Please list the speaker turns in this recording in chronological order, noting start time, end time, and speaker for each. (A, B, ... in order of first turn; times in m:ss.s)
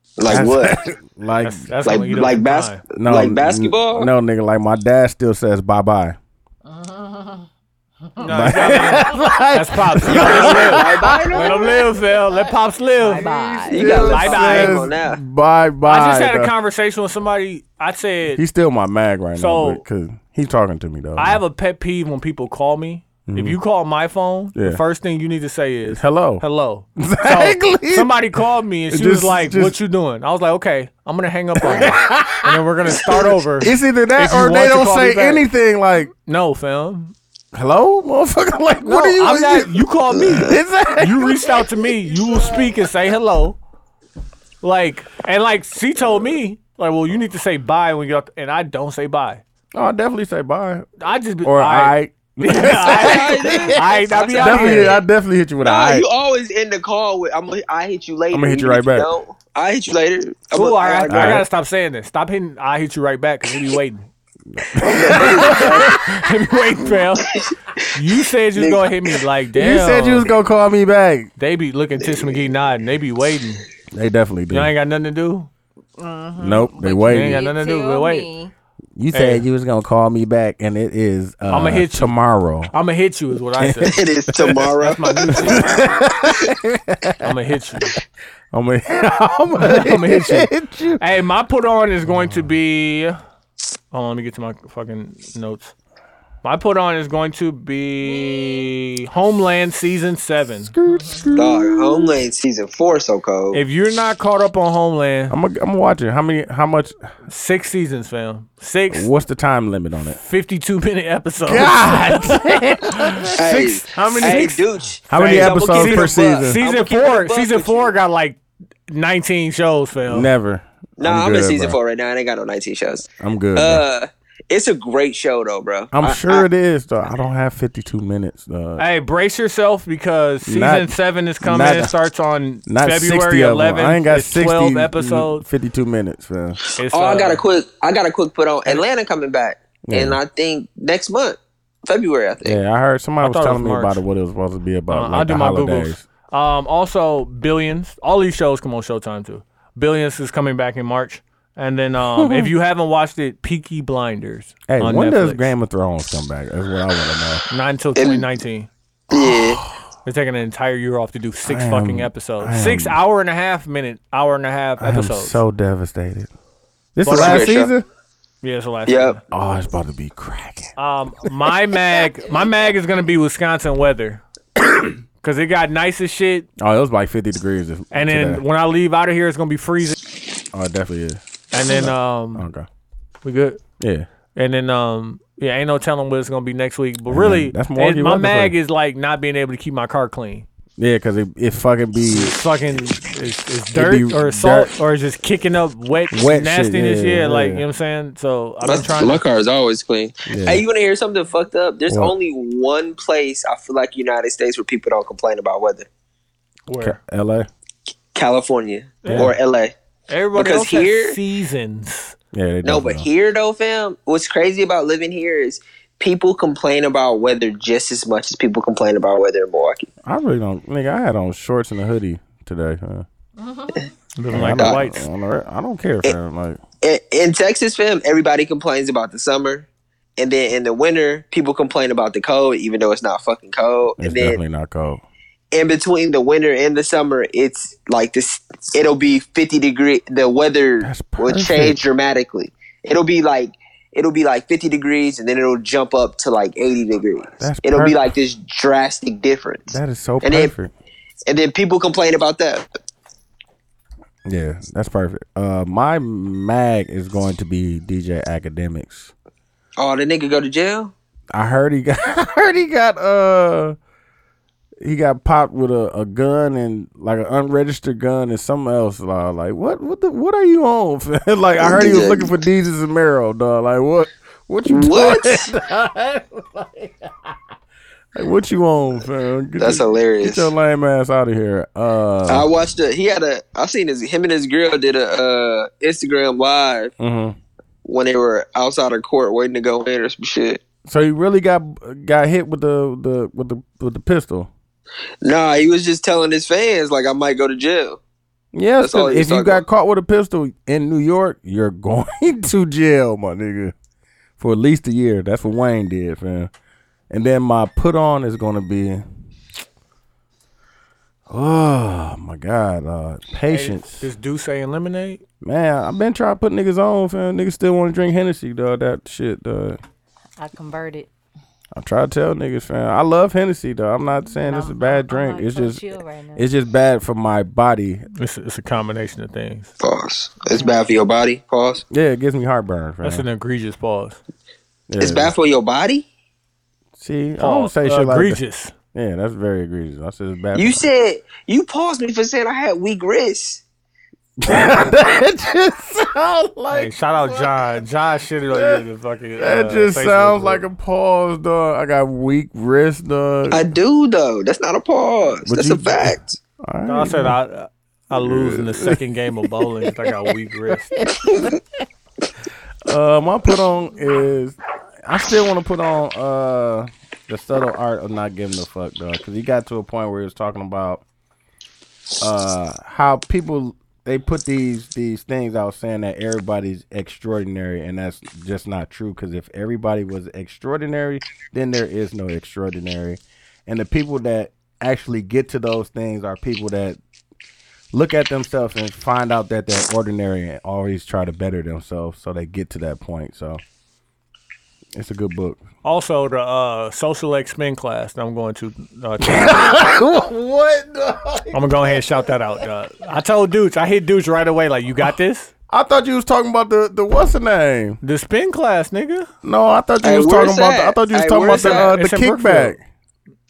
0:00.2-0:00.8 A
0:00.3-0:01.7 B
0:01.4-0:02.8 C
0:01.8-0:04.1 A
0:03.0-0:06.2 B
0:06.7-0:07.5 D
0:08.2-0:13.3 C
0:08.2-0:11.3 B
0:08.4-0:09.2 D
0:10.1-0:11.6 A
0:11.0-0:14.1 D
0:13.2-0:16.5 B
0:13.7-0:15.2 A
0:13.9-0:14.8 C
0:15.9-0:18.4 C
0:18.4-0:21.4 B
0:19.4-0:19.8 C
0:21.2-0:35.5 C
0:23.3-0:23.6 B
0:24.6-0:24.8 B
0:25.9-0:26.4 B
0:27.0-0:28.2 B
0:28.9-0:29.8 B
0:31.6-0:36.1 B
0:36.2-0:37.2 C
0:37.5-0:39.8 B
0:38.8-0:43.6 C
0:40.2-0:40.6 A
0:40.4-0:42.6 B
0:44.6-0:49.4 C
0:49.7-0:50.9 B
0:51.0-0:55.0 C
0:51.4-0:56.1 B
0:52.9-0:55.0 A
0:55.6-1:01.4 A
0:58.3-0:59.1 B
1:00.5-1:04.1 C
1:01.1-1:01.4 B
1:04.5-1:06.0 B
1:04.9-1:06.0 A
1:05.1-1:07.2 C
1:06.8-1:07.8 A
1:07.9-1:10.3 C
1:08.6-1:09.2 A
1:09.6-1:11.3 B
1:11.4-1:13.6 C
1:12.0-1:12.5 A
1:13.9-1:14.7 B
1:14.5-1:15.5 C
1:16.0-1:18.5 D
1:16.4-1:17.4 B
1:17.1-1:18.3 C
1:19.0-1:22.7 B
1:19.1-1:19.4 C
1:21.5-1:22.2 C
1:22.7-1:24.0 C
1:23.6-1:24.7 B
1:23.8-1:25.8 A
1:24.8-1:25.8 C
1:25.3-1:27.4 B
1:27.2-1:28.0 C
1:28.5-1:31.0 B
1:29.6-1:33.2 C
1:32.1-1:32.5 B
1:33.9-1:35.7 C
1:36.4-1:40.7 C
1:38.0-1:38.5 D
1:40.7-1:42.2 B
1:40.9-1:41.3 D
1:41.4-1:43.6 A
1:43.5-1:45.4 C
1:45.3-1:47.0 B
1:47.3-1:49.1 C
1:48.9-1:50.2 B
1:50.1-1:53.3 C
1:51.4-1:56.6 B
1:53.4-1:58.0 A
1:54.1-1:54.5 C
1:55.1-2:00.3 C
2:00.1-2:01.8 B
2:01.0-2:06.4 A
2:03.2-2:03.8 B
2:05.9-2:08.8 B
2:08.8-2:15.4 C
2:10.4-2:11.9 B
2:12.7-2:16.6 B
2:16.8-2:17.4 C
2:16.8-2:22.6 A
2:19.8-2:20.2 B
2:22.4-2:26.0 B
2:23.2-2:24.0 C
2:24.9-2:35.5 C
2:32.2-2:32.5 B
2:34.7-2:37.4 B
2:37.5-2:38.7 C
2:38.0-2:38.2 A
2:39.1-2:39.6 A
2:39.1-2:39.8 B
2:40.0-2:45.4 C
2:41.4-2:43.0 B
2:44.8-2:46.3 B
2:47.0-2:47.8 B
2:47.0-2:47.6 C
2:47.0-2:47.7 A
2:48.4-2:49.2 C
2:48.9-2:49.2 A
2:49.3-2:50.8 B
2:50.8-2:54.2 C
2:55.2-2:56.5 C
2:56.6-2:58.4 B
2:57.9-3:00.0 C
3:00.5-3:02.7 B
3:01.5-3:02.4 C
3:03.2-3:03.6 C
3:03.8-3:04.1 B
3:04.4-3:10.4 C
3:07.1-3:08.6 B
3:10.8-3:12.4 B
3:12.1-3:19.2 C
3:13.7-3:14.8 B
3:16.1-3:17.6 B
3:18.6-3:25.9 A
3:20.3-3:20.6 B
3:21.9-3:22.1 B
3:26.7-3:27.0 C
3:26.8-3:27.5 B
3:28.2-3:29.8 A
3:29.0-3:29.3 C
3:29.1-3:29.3 B
3:30.1-3:32.2 C
3:30.3-3:31.2 A
3:32.3-3:33.1 B
3:32.6-3:39.9 A
3:40.0-3:43.1 B
3:43.4-3:43.9 D
3:44.2-3:45.0 C
3:44.3-3:46.6 B
3:44.6-3:44.8 A
3:46.8-3:54.4 A
3:54.0-3:55.0 B
3:55.5-4:10.5 A
4:00.8-4:01.8 B
4:07.4-4:08.1 B
4:09.7-4:10.7 B
4:11.3-4:12.6 A
4:14.3-4:19.1 B
4:19.8-4:20.9 A
4:21.3-4:23.8 B
4:24.8-4:37.3 B
4:31.6-4:32.3 A
4:34.7-4:35.5 A
4:38.2-4:42.5 B
4:39.6-4:40.5 A
4:42.3-4:46.9 A
4:47.0-4:47.4 B
4:47.8-4:50.6 A
4:50.8-4:54.5 B
4:55.2-4:58.0 A
4:58.5-5:03.7 B
4:58.8-4:59.6 A
5:04.4-5:06.5 B
5:07.1-5:09.0 B
5:11.3-5:14.1 B
5:13.5-5:15.2 C
5:15.4-5:19.8 B
5:20.4-5:21.1 D
5:21.8-5:25.8 B
5:24.2-5:26.5 D
5:26.4-5:28.0 B
5:28.2-5:29.7 C
5:29.8-5:31.8 A
5:30.5-5:30.9 D
5:31.9-5:33.2 B
5:33.0-5:34.2 C
5:34.9-5:35.3 B
5:35.0-5:36.1 A
5:37.0-5:38.4 B
5:37.4-5:38.7 C
5:38.9-5:40.9 B
5:40.6-5:43.6 A
5:44.4-5:47.5 B
5:46.7-5:50.7 C
5:48.5-5:48.8 B
5:49.4-5:53.6 B
5:53.5-5:56.4 A
5:55.5-5:57.4 B
5:56.9-6:00.9 C
5:58.2-5:59.0 B
5:59.8-6:01.6 B
6:02.9-6:11.0 B
6:12.2-6:27.0 B
6:27.9-6:33.6 B
6:34.9-6:35.6 B
6:35.8-6:39.8 C
6:39.2-6:42.2 B
6:41.5-6:45.5 C
6:45.7-6:48.0 B
6:48.0-6:49.3 C
6:49.4-6:52.8 B
6:50.0-6:51.9 A
6:51.4-6:52.8 C